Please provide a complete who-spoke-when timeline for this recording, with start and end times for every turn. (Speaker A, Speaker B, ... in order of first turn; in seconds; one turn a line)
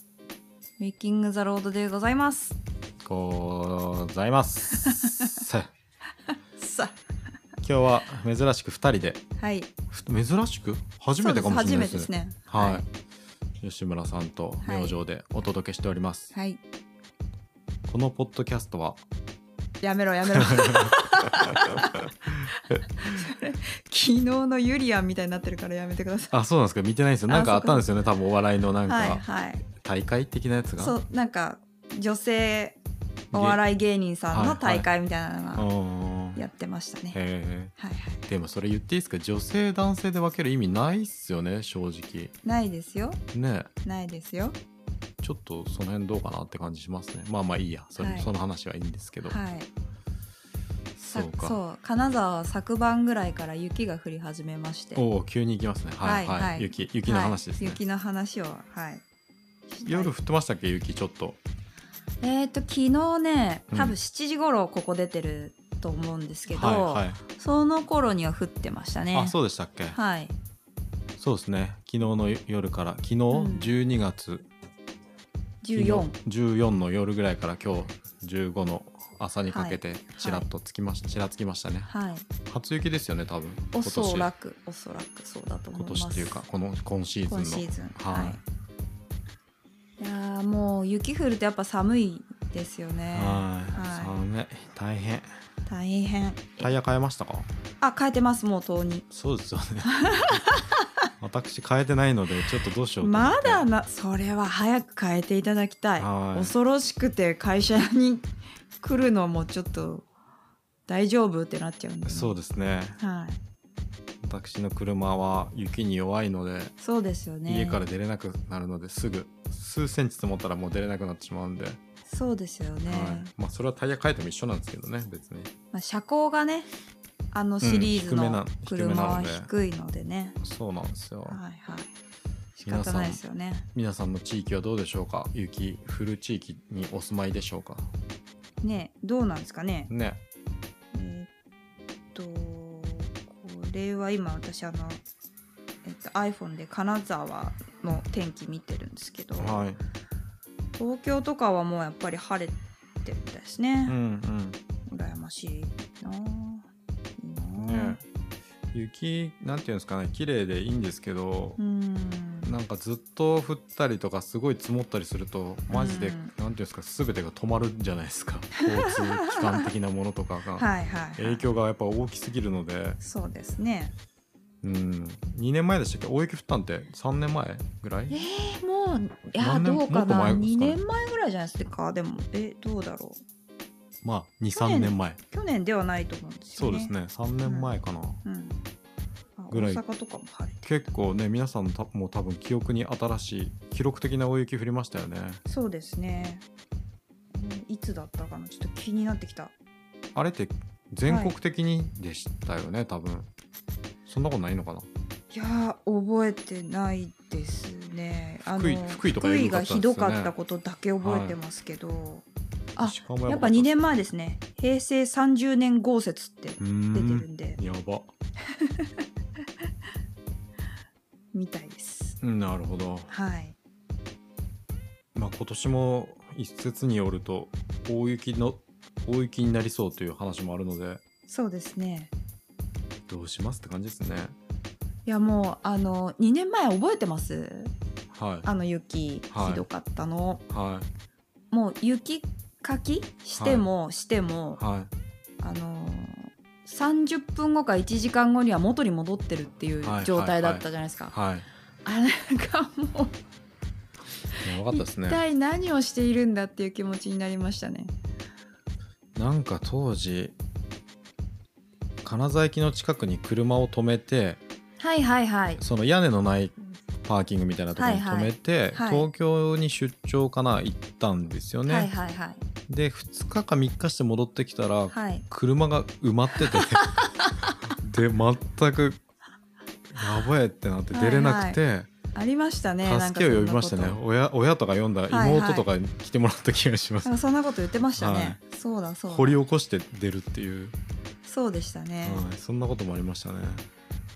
Speaker A: 0.8-2.6
Speaker B: 3.0-5.7
Speaker A: 4.8-5.4
Speaker A: 6.6-6.9
Speaker B: 7.6-9.2
Speaker A: 9.4-9.7
Speaker B: 9.9-12.8
Speaker A: 11.2-12.9
Speaker B: 13.6-16.3
Speaker A: 14.6-15.0
Speaker A: 16.3-16.6
Speaker B: 17.9-19.0
Speaker A: 19.8-22.1
Speaker B: 20.4-21.6
Speaker A: 23.0-26.3
Speaker B: 26.3-29.2
Speaker A: 27.3-27.9
Speaker A: 28.9-29.6
Speaker B: 29.8-31.0
Speaker A: 30.8-32.8
Speaker A: 33.3-35.7
Speaker B: 33.3-33.6
Speaker B: 34.3-34.9
Speaker B: 35.6-36.4
Speaker A: 36.4-37.2
Speaker B: 37.1-37.7
Speaker A: 37.8-38.2
Speaker B: 38.3-42.3
Speaker A: 42.4-43.2
Speaker B: 43.3-43.7
Speaker A: 43.8-44.6
Speaker B: 45.2-49.4
Speaker A: 48.0-48.3
Speaker A: 49.3-49.7
Speaker B: 51.0-51.6
Speaker A: 51.1-55.0
Speaker B: 55.0-57.8
Speaker A: 56.0-59.0
Speaker A: 59.7-60.1
Speaker B: 59.8-61.4
Speaker A: 62.2-69.4
Speaker B: 63.7-64.0
Speaker B: 66.5-67.2
Speaker B: 69.1-70.0
Speaker A: 69.9-70.3
Speaker B: 71.2-74.5
Speaker A: 73.3-73.8
Speaker A: 75.6-76.2
Speaker B: 75.7-81.9
Speaker A: 79.5-80.5
Speaker A: 81.9-82.3
Speaker B: 82.5-84.3
Speaker A: 83.7-86.4
Speaker B: 85.7-88.4
Speaker A: 87.3-88.4
Speaker A: 90.0-94.2
Speaker B: 93.1-95.3
Speaker A: 95.7-96.7
Speaker B: 96.6-97.5
Speaker A: 97.8-99.0
Speaker B: 99.1-100.4
Speaker A: 99.8-100.8
Speaker B: 101.2-103.7
Speaker A: 103.0-108.3
Speaker B: 106.0-106.5
Speaker A: 108.8-110.1
Speaker A: 110.9-112.4
Speaker B: 112.0-113.0
Speaker A: 113.0-113.4
Speaker B: 114.2-116.7
Speaker A: 116.8-117.8
Speaker B: 117.5-121.8
Speaker A: 122.1-123.3
Speaker B: 122.9-125.5
Speaker A: 125.7-126.7
Speaker A: 127.3-130.4
Speaker B: 127.6-129.5
Speaker B: 130.4-131.4
Speaker A: 131.3-131.9
Speaker A: 132.6-133.7
Speaker B: 132.6-133.2
Speaker B: 133.8-137.9
Speaker A: 138.6-139.9
Speaker B: 139.9-140.2
Speaker A: 140.9-141.3
Speaker A: 142.1-145.0
Speaker A: 145.8-149.7
Speaker B: 149.4-149.8
Speaker A: 150.8-154.0
Speaker B: 153.9-154.6
Speaker A: 154.9-156.7
Speaker A: 157.2-158.0
Speaker B: 157.6-158.0
Speaker B: 158.7-161.6
Speaker A: 161.6-162.5
Speaker B: 162.4-173.0
Speaker A: 165.7-166.3
Speaker A: 168.8-169.7
Speaker A: 170.6-171.4
Speaker A: 173.0-173.9
Speaker B: 174.6-178.3
Speaker A: 178.1-183.2
Speaker B: 179.4-180.8
Speaker B: 184.0-185.2
Speaker A: 184.5-187.7
Speaker B: 186.6-188.2
Speaker A: 188.2-188.6
Speaker A: 189.4-190.6
Speaker B: 189.5-189.8
Speaker B: 190.6-195.4
Speaker A: 195.5-196.4
Speaker A: 197.3-199.5
Speaker B: 200.2-203.3
Speaker A: 201.1-201.3
Speaker B: 204.1-204.9
Speaker A: 205.3-212.2
Speaker B: 208.5-210.3
Speaker B: 211.0-211.4
Speaker A: 212.8-217.6
Speaker B: 212.8-213.8
Speaker B: 216.6-218.1
Speaker A: 218.5-219.0
Speaker A: 221.3-222.2
Speaker B: 222.2-223.1
Speaker A: 223.1-223.6
Speaker B: 225.2-231.0
Speaker A: 231.3-232.1
Speaker B: 233.1-234.3
Speaker A: 235.1-237.7
Speaker B: 238.1-238.5
Speaker A: 238.4-240.4
Speaker B: 239.3-239.6
Speaker B: 240.5-240.9
Speaker A: 241.5-244.6
Speaker B: 243.4-243.7
Speaker B: 244.6-244.9
Speaker A: 245.4-251.1
Speaker B: 249.8-251.5
Speaker A: 251.8-253.2
Speaker A: 254.3-257.9
Speaker B: 254.4-255.2
Speaker B: 259.2-260.4
Speaker B: 262.0-264.4
Speaker A: 264.8-265.6
Speaker B: 265.6-271.9
Speaker A: 267.8-269.1
Speaker A: 271.7-272.4
Speaker B: 272.7-276.9
Speaker A: 274.9-275.2
Speaker A: 276.6-277.1
Speaker B: 277.8-279.0
Speaker B: 279.9-281.9
Speaker A: 280.9-281.6
Speaker A: 282.1-284.0
Speaker B: 282.8-287.1
Speaker A: 285.1-285.7
Speaker A: 287.0-289.4
Speaker B: 288.0-288.4
Speaker B: 289.1-290.8
Speaker A: 291.2-292.2
Speaker B: 292.0-293.6